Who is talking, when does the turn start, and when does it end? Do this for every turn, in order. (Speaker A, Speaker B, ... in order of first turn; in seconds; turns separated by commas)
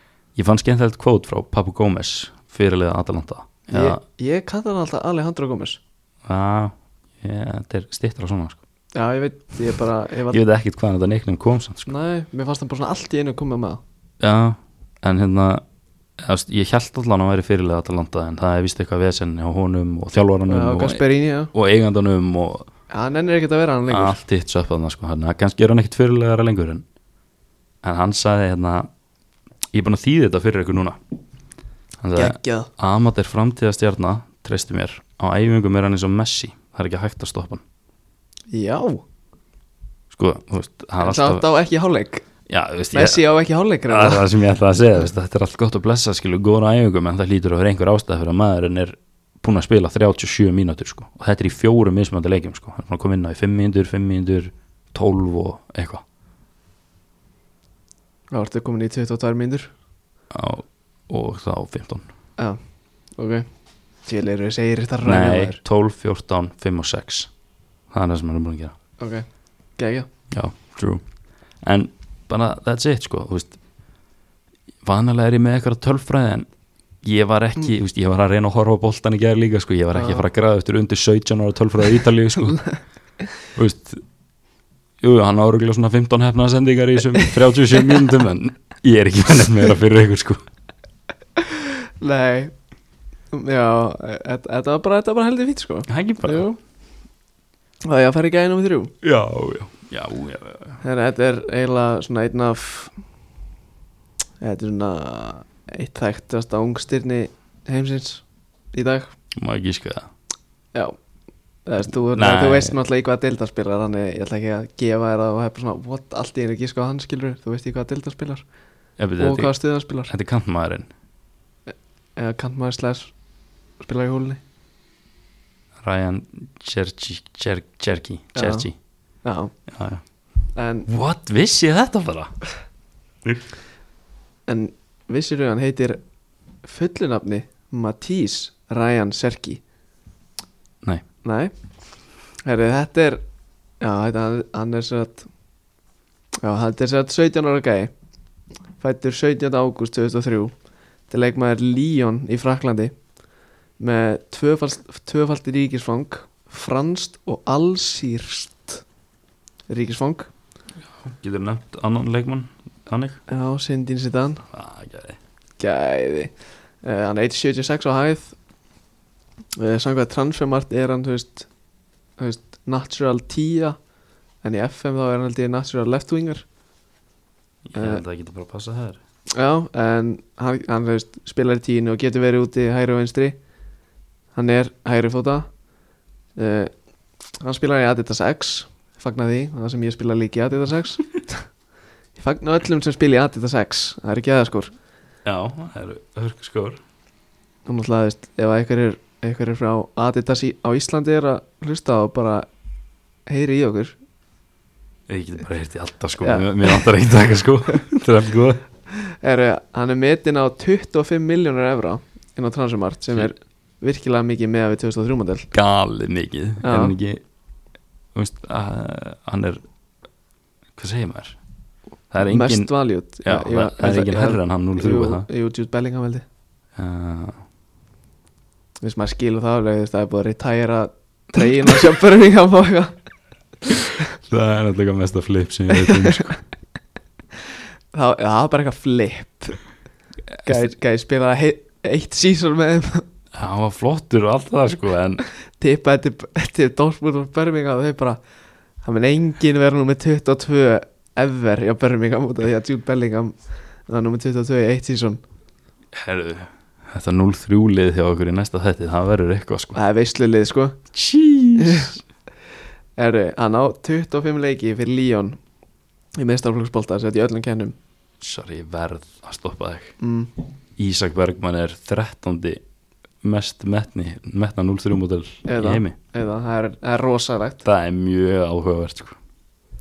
Speaker A: 0.3-4.0, Speaker B: 3.7-5.8, Speaker A: 6.2-8.6, Speaker B: 8.9-10.4, Speaker A: 10.3-11.9, Speaker B: 11.9-13.8, Speaker A: 14.2-15.6, Speaker A: 16.2-22.7, Speaker B: 20.5-21.5, Speaker B: 22.9-24.2, Speaker A: 23.9-26.9, Speaker A: 27.8-28.9, Speaker A: 29.7-31.0, Speaker A: 32.0-37.6, Speaker B: 32.1-32.7, Speaker B: 38.5-39.0, Speaker A: 40.1-41.5, Speaker B: 41.0-42.2, Speaker A: 42.5-43.3, Speaker B: 42.9-44.3, Speaker A: 43.9-56.0, Speaker B: 58.3-59.7, Speaker A: 60.3-62.1, Speaker B: 63.1-63.5, Speaker B: 64.0-65.6, Speaker A: 65.0-67.3, Speaker A: 67.9-68.8, Speaker B: 69.0-70.1, Speaker A: 70.3-71.0, Speaker A: 71.6-73.6, Speaker A: 74.8-76.5, Speaker A: 77.0-82.6, Speaker B: 79.9-80.2, Speaker A: 83.5-84.0, Speaker A: 85.0-90.4, Speaker B: 91.4-92.5, Speaker B: 93.3-96.6, Speaker A: 95.9-96.5, Speaker B: 97.8-98.9, Speaker A: 99.0-100.8, Speaker B: 100.8-102.9, Speaker B: 104.4-109.1, Speaker A: 109.3-110.1, Speaker B: 111.7-118.5, Speaker A: 112.1-112.8, Speaker A: 119.0-120.9, Speaker B: 119.2-120.1, Speaker B: 121.7-123.1, Speaker B: 123.8-124.4, Speaker A: 125.8-128.8, Speaker B: 128.3-128.7, Speaker B: 129.2-129.5, Speaker A: 129.7-130.0, Speaker B: 130.6-130.9, Speaker A: 130.9-132.4, Speaker B: 134.5-136.0, Speaker B: 136.6-139.6, Speaker B: 141.2-141.5, Speaker B: 142.4-143.2, Speaker B: 143.8-145.3, Speaker B: 146.4-147.9, Speaker B: 148.8-150.5, Speaker B: 151.1-152.9, Speaker B: 153.8-158.8, Speaker B: 159.7-160.3, Speaker A: 160.9-163.2, Speaker B: 163.3-164.4, Speaker A: 164.5-165.2, Speaker B: 165.6-168.4, Speaker B: 169.6-171.5, Speaker B: 172.2-173.8, Speaker B: 174.4-176.4, Speaker A: 177.7-179.0, Speaker B: 177.8-178.0, Speaker B: 179.3-183.4, Speaker B: 184.3-185.5, Speaker B: 186.4-186.7, Speaker B: 187.4-191.4, Speaker B: 192.2-194.7, Speaker A: 195.2-196.8, Speaker B: 197.7-202.5, Speaker B: 203.3-203.9, Speaker A: 205.1-208.6, Speaker B: 206.2-206.8, Speaker B: 209.0-215.5, Speaker A: 215.5-217.2, Speaker B: 216.6-217.0, Speaker A: 218.1-219.6, Speaker A: 220.8-221.4, Speaker A: 222.1-222.7, Speaker B: 222.3-226.2, Speaker A: 223.2-225.3, Speaker A: 226.8-227.4, Speaker B: 228.8-232.9, Speaker A: 234.3-236.4, Speaker B: 235.8-236.2, Speaker B: 237.9-239.6, Speaker B: 240.4-243.1, Speaker A: 243.3-245.2, Speaker B: 245.6-248.2, Speaker B: 248.8-253.4, Speaker B: 253.9-255.2, Speaker A: 255.9-259.8, Speaker B: 259.8-260.8, Speaker A: 260.9-262.0, Speaker B: 261.6-261.9, Speaker B: 263.0-265.4, Speaker B: 266.2-267.8, Speaker A: 268.2-270.0, Speaker B: 270.0-270.3, Speaker A: 270.8-272.6, Speaker A: 273.2-275.9, Speaker B: 275.4-277.6, Speaker A: 277.6-279.2